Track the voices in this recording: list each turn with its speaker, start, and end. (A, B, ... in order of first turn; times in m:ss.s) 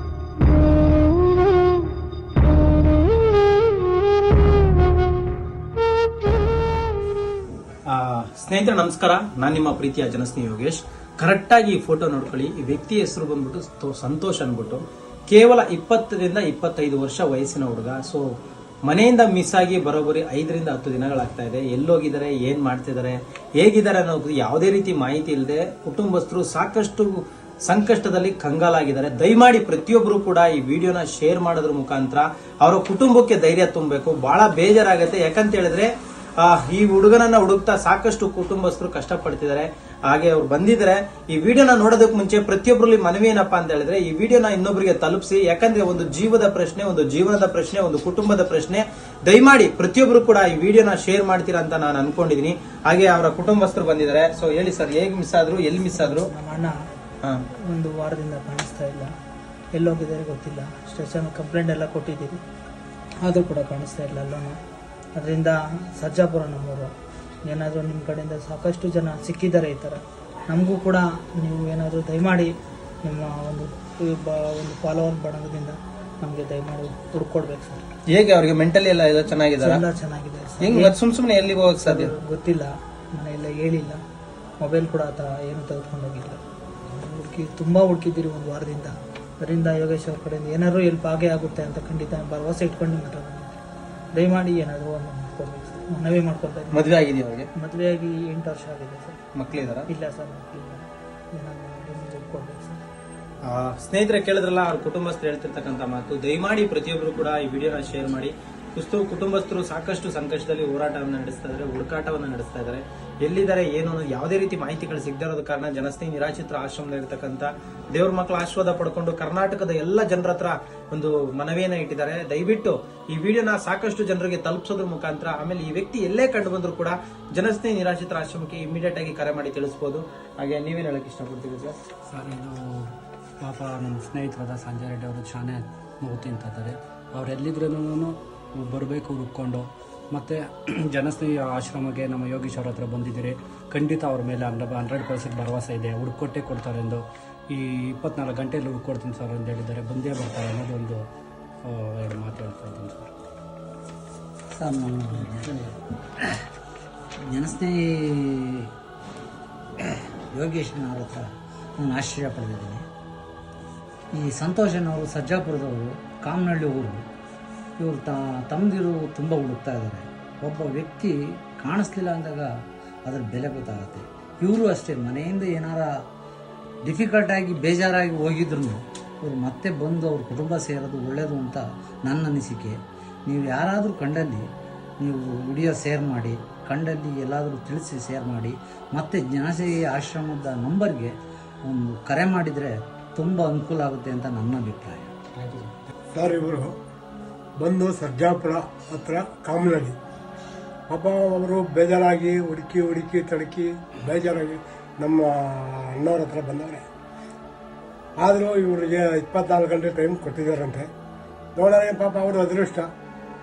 0:07.9-0:18.2 A
0:18.8-0:35.9 A
0:36.4-0:56.3 A
0:55.9-0:56.7 B
0:57.7-0:59.1 B
0:59.7-1:02.4 B
1:03.2-1:04.6 B
1:05.2-1:06.9 B
1:07.5-1:12.5 B
1:13.0-1:17.8 B
1:18.1-1:19.8 A
1:19.6-1:21.0 B
1:20.6-1:22.1 A
1:21.8-1:24.0 B
1:24.6-1:33.6 B
1:34.1-1:36.9 B
1:36.7-1:37.5 A
1:37.5-1:42.8 B
1:39.4-1:39.9 A
1:43.4-2:11.8 A
2:12.1-2:31.0 C
2:31.6-2:33.1 C
2:34.5-2:35.5 D
2:35.4-2:35.7 C
2:37.3-2:38.7 D
2:39.8-2:42.8 D
2:44.1-2:47.0 D
2:47.8-2:52.5 D
2:53.0-2:56.0 D
2:56.8-3:04.5 D
3:05.0-3:11.1 D
3:11.6-3:15.1 D
3:15.4-3:15.7 A
3:16.1-3:16.8 E
3:17.6-3:20.0 E
3:20.9-3:26.8 E
3:28.2-3:30.9 E
3:31.6-3:32.9 E